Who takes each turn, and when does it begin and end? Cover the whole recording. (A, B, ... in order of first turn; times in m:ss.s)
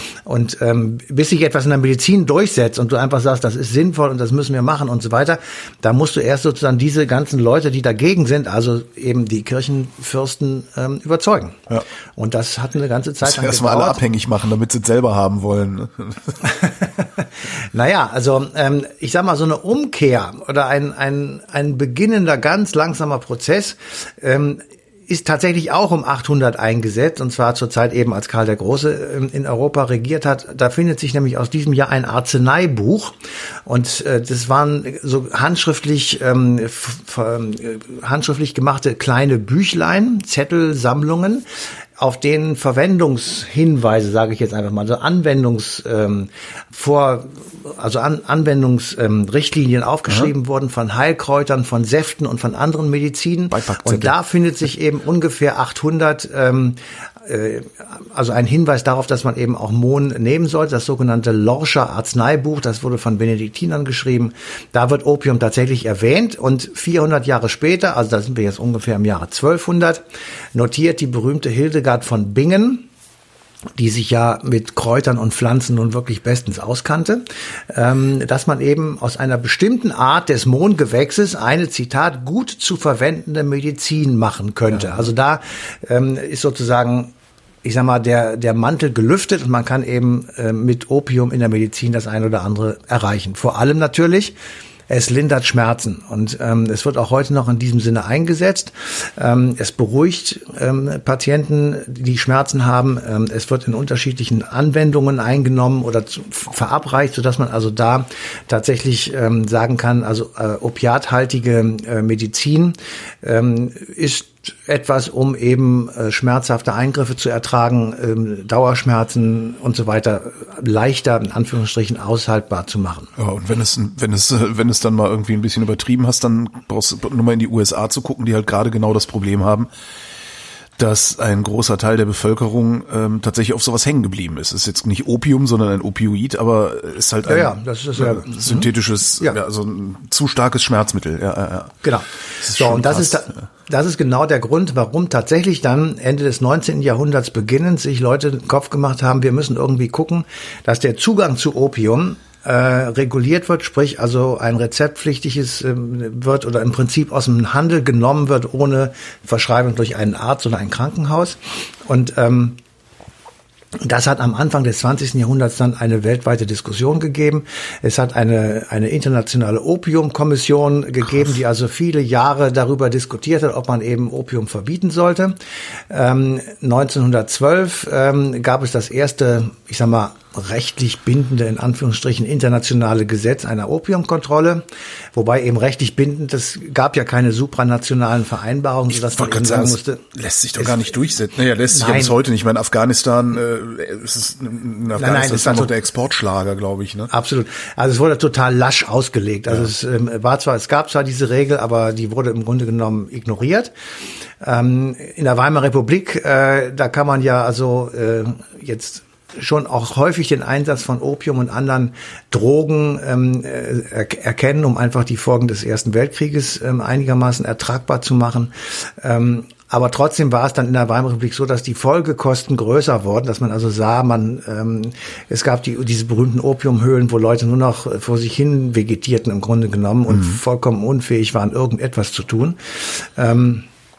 0:00.3-0:14.0 A
0:13.2-0:16.4 B
0:16.4-0:33.2 A
0:33.7-0:41.4 A
0:42.0-1:10.0 A
0:53.5-0:54.1 B
1:10.5-1:12.9 A
1:13.8-1:34.4 A
1:34.9-2:03.1 A
2:03.2-2:09.7 B
2:10.8-2:21.8 B
2:17.2-2:19.4 A
2:21.8-2:42.6 A
2:22.4-2:23.2 B
2:43.8-2:55.4 A
2:55.9-3:10.1 A
3:08.9-3:17.1 B
3:10.6-3:10.9 A
3:11.7-3:12.2 A
3:15.0-3:15.8 A
3:17.1-3:23.7 A
3:24.4-3:53.7 A